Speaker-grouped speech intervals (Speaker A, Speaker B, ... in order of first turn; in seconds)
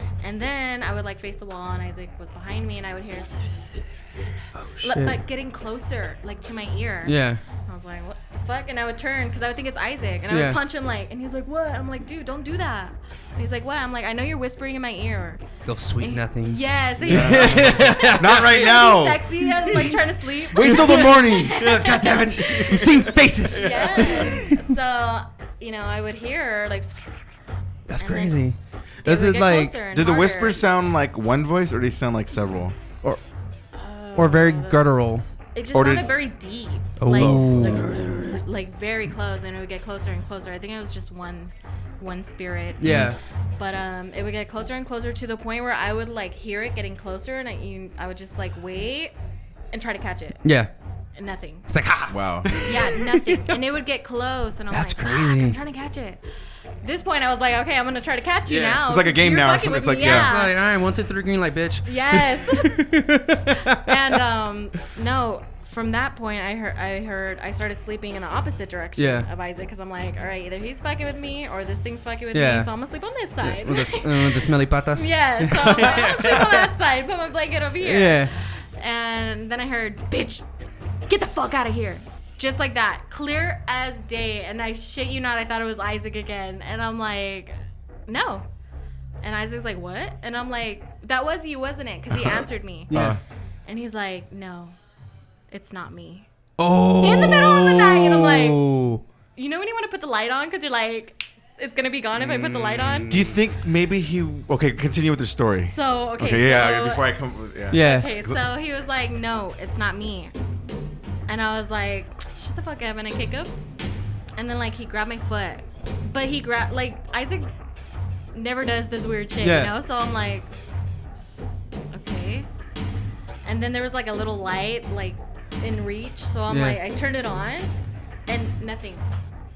Speaker A: 0.2-15.5, 16.0-27.3, 28.0-28.4, 29.1-30.6, 33.8-49.1, 49.7-50.4, 51.2-51.7, 52.6-56.2, 56.8-60.6, 61.9-62.8, 63.5-80.5, 81.1-87.5, 88.1-88.5, 89.2-92.9, 93.7-94.8, 95.5-96.3, 97.0-98.6, 99.4-103.1, 105.7-107.1, 107.7-110.3, 111.3-113.5, 114.4-117.5, 118.3-120.5, 121.9-122.5, 123.5-127.7, 128.3-129.1
Speaker B: 4.6-5.2, 7.0-7.4, 10.3-10.6, 15.7-18.7, 20.6-24.7, 27.9-29.8, 34.2-35.2, 37.0-38.4, 42.8-43.2, 50.4-50.7, 51.7-53.6, 54.7-55.6, 58.5-58.8, 60.0-64.2, 69.0-69.3, 72.3-72.7, 73.4-76.7, 77.8-78.3, 92.9-93.2, 96.6-99.0, 102.2-103.4, 107.7-108.1, 119.4-119.7, 126.5-126.8
Speaker C: 17.0-20.0, 20.5-21.7, 22.6-24.4, 29.9-32.8, 35.7-36.1, 37.1-38.0, 42.8-43.2, 52.1-52.6, 58.8-60.3, 92.9-93.2, 103.1-108.4